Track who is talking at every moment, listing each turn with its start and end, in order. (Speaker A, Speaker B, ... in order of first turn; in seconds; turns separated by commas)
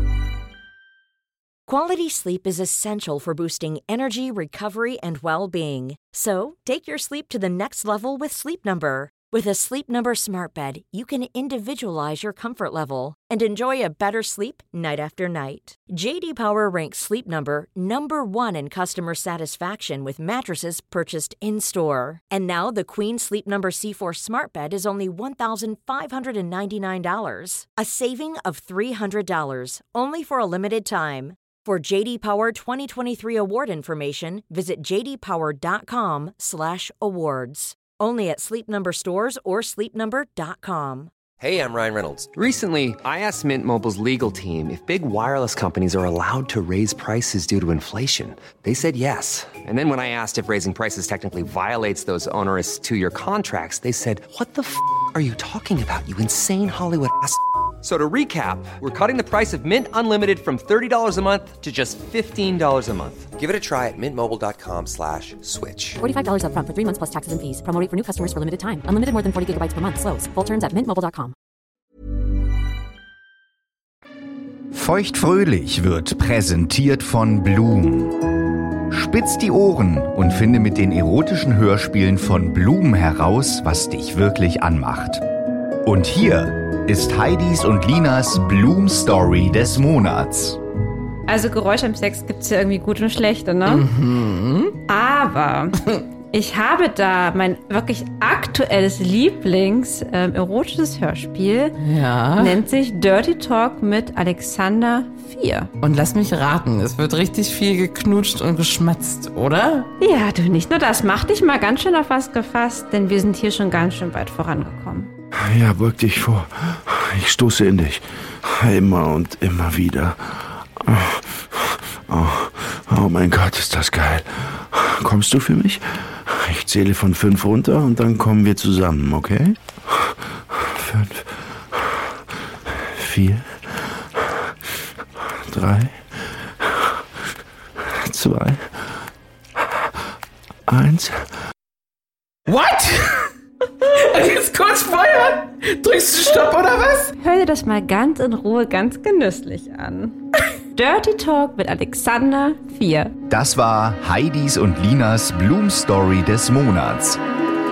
Speaker A: 1.7-41.1, Speaker B: 41.4-66.0, Speaker C: 66.0-71.3, Speaker D: 74.7-78.3, Speaker D: 78.9-85.2, Speaker D: 85.8-90.6, Speaker E: 91.3-93.8, Speaker F: 93.7-94.8, Speaker E: 94.9-95.8, Speaker E: 96.3-101.8, Speaker F: 101.8-102.6, Speaker E: 102.4-105.7, Speaker F: 105.8-109.9, Speaker E: 110.0-115.1, Speaker G: 115.3-132.1, Speaker G: 132.8-134.4, Speaker G: 135.3-137.0, Speaker G: 137.8-139.0, Speaker G: 140.7-141.3, Speaker F: 142.5-147.1, Speaker E: 147.2-150.2, Speaker E: 150.7-153.2, Speaker D: 153.3-157.2